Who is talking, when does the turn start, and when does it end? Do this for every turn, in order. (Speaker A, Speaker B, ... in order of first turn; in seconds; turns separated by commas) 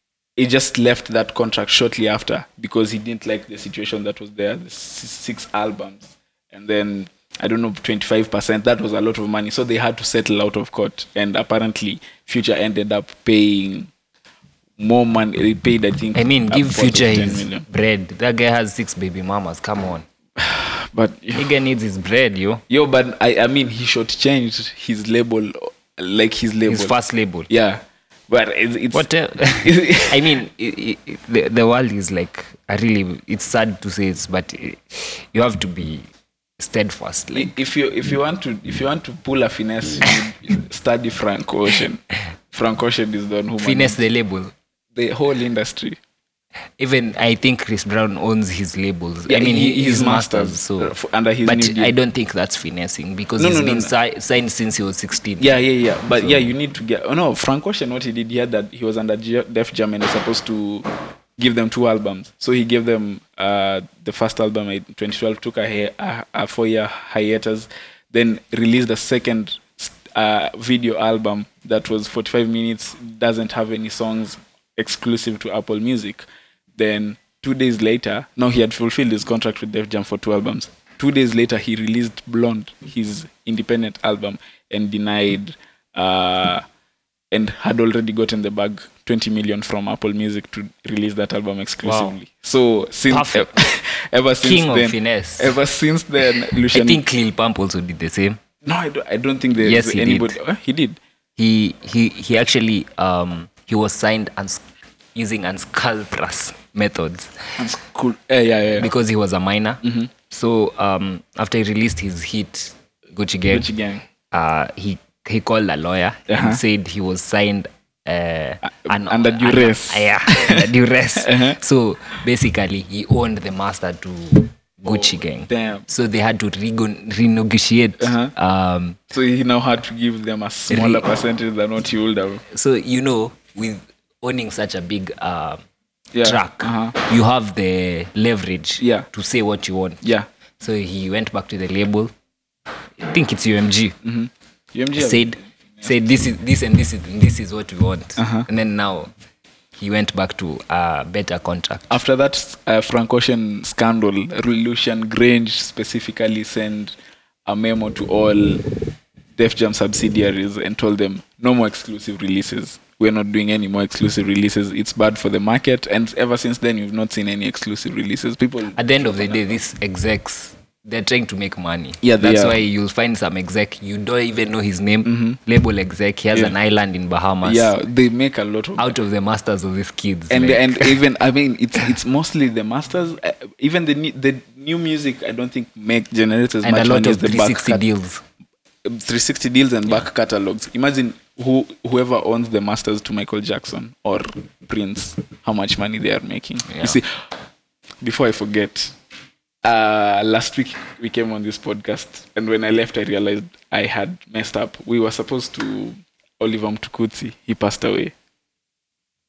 Speaker A: 0.4-13.9, Speaker A: 14.8-17.6, Speaker B: 16.1-20.1, Speaker A: 20.4-21.5, Speaker B: 21.4-22.6, Speaker A: 22.7-26.9, Speaker B: 26.7-27.5, Speaker A: 27.5-30.4, Speaker B: 28.9-36.1, Speaker B: 36.6-37.5, Speaker A: 37.3-44.0, Speaker B: 43.6-44.5, Speaker A: 45.0-46.0, Speaker B: 46.8-55.5, Speaker A: 49.3-51.9, Speaker A: 53.4-53.9, Speaker A: 55.4-86.6, Speaker B: 56.2-56.5, Speaker A: 87.3-97.0, Speaker B: 91.8-92.2, Speaker B: 93.1-93.6, Speaker B: 94.4-95.6, Speaker B: 96.6-98.4, Speaker A: 98.6-101.0, Speaker B: 99.6-100.4, Speaker B: 101.4-104.6, Speaker B: 105.2-107.4, Speaker A: 107.6-108.9, Speaker B: 108.7-113.7, Speaker A: 109.8-110.1, Speaker A: 113.5-114.0, Speaker B: 114.3-129.0, Speaker A: 116.3-116.6, Speaker A: 118.6-120.7, Speaker A: 121.2-121.6, Speaker A: 124.9-125.8, Speaker A: 128.0-128.3, Speaker A: 129.1-132.4, Speaker B: 130.7-131.1, Speaker B: 132.5-135.6, Speaker A: 136.1-136.9, Speaker B: 136.2-140.0, Speaker A: 138.8-139.1, Speaker B: 140.6-142.1, Speaker B: 143.0-144.0, Speaker A: 144.0-146.2, Speaker B: 144.9-149.1, Speaker A: 148.2-148.5, Speaker B: 149.8-152.0, Speaker A: 151.9-156.9, Speaker A: 157.5-158.7, Speaker A: 159.4-169.6, Speaker B: 168.8-177.7, Speaker A: 172.0-172.6, Speaker A: 175.1-175.4, Speaker A: 177.4-178.9, Speaker B: 178.8-180.9, Speaker A: 180.3-187.8, Speaker B: 186.6-188.2, Speaker A: 188.8-197.2, Speaker B: 196.7-197.0, Speaker A: 198.0-198.9, Speaker A: 199.6-208.1